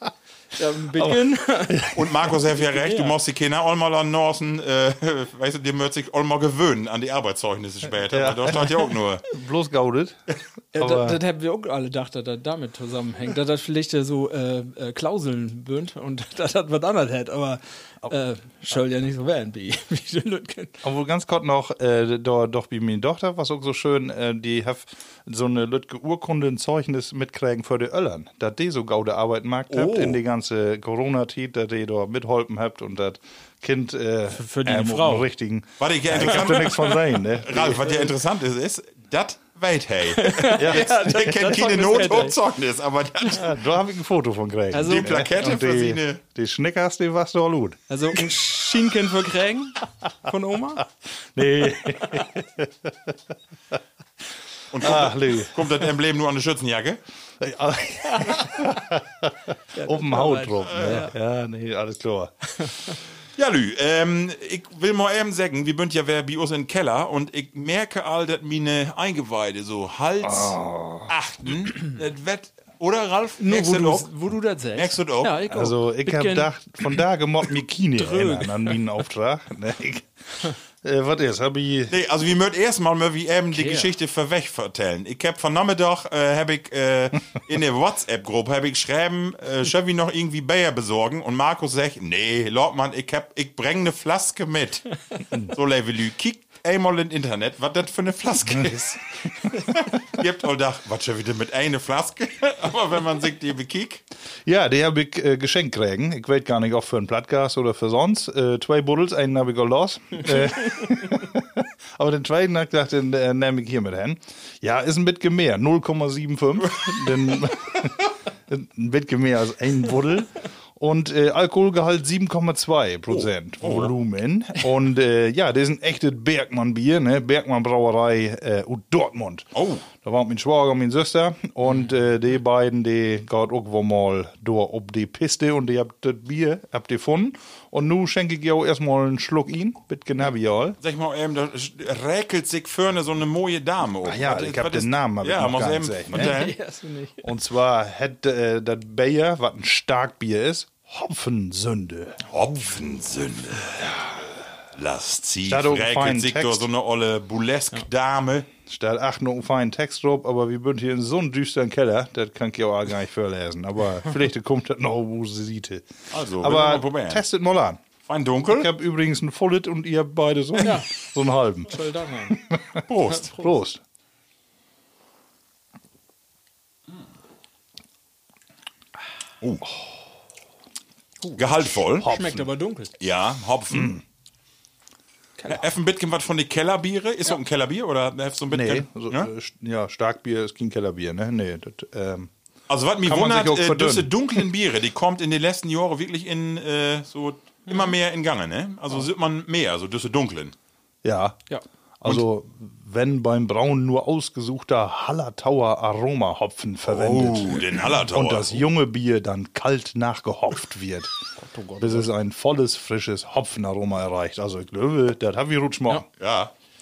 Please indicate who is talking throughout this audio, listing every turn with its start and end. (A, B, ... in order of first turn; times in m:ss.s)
0:00.5-0:01.9 A
0:01.0-0:02.0 B
0:01.9-0:09.2 C
0:02.7-0:03.1 A
0:08.0-0:08.7 B
0:09.3-0:10.2 B
0:10.7-0:20.8 A
0:10.8-0:11.2 B
0:20.8-0:38.1 B
0:29.7-0:30.2 C
0:34.3-0:35.3 A
0:35.8-0:43.5 C
0:36.2-0:37.0 A
0:40.2-0:42.4 A
0:40.6-0:40.9 B
0:43.3-0:47.8 B
0:44.7-0:45.3 A
0:44.8-0:46.2 C
0:47.9-0:50.9 A
0:51.4-0:53.2 B
0:51.8-0:52.3 A
0:54.7-0:57.0 C
0:54.8-0:55.6 B
0:57.4-0:59.3 B
0:58.0-0:58.7 A
0:59.7-1:01.1 A
0:59.8-1:02.3 B
1:00.7-1:01.1 C
1:02.6-1:02.9 A
1:03.4-1:14.1 C
1:10.2-1:11.1 B
1:13.4-1:16.5 A
1:14.8-1:15.3 C
1:15.5-1:21.9 B
1:18.0-1:18.8 A
1:21.9-1:34.9 C
1:23.5-1:23.9 A
1:35.4-1:39.0 C
1:38.5-1:39.0 B
1:39.5-1:44.0 C
1:44.4-1:58.0 B
1:58.5-2:20.8 B
2:03.1-2:03.9 C
2:09.6-2:09.9 C
2:20.8-2:26.5 C
2:24.0-2:26.4 B
2:26.1-2:27.3 A
2:27.2-2:32.2 B
2:32.3-2:33.9 C
2:33.8-2:34.2 B
2:34.8-2:38.5 C
2:35.5-2:36.7 B
2:38.7-2:45.9 B
2:46.1-2:47.2 C
2:46.4-2:47.8 B
2:48.1-2:48.7 C
2:48.4-2:51.7 B
2:50.6-2:50.9 A
2:51.7-2:52.4 A
2:52.3-2:52.8 B
2:52.9-2:53.3 C
2:53.1-2:53.5 A
2:53.3-2:53.8 B
3:01.4-3:02.1 C
3:02.0-3:02.5 B
3:02.0-3:02.9 A
3:03.0-3:04.0 C
3:03.7-3:04.0 B
3:05.5-3:09.3 C
3:08.5-3:12.3 B
3:12.7-3:20.6 C
3:13.0-3:14.4 B
3:17.7-3:17.9 A
3:21.0-3:21.4 B
3:22.0-3:31.1 B
3:26.9-3:28.7 C
3:31.4-3:32.1 A
3:31.8-3:36.1 B
3:36.2-3:36.5 C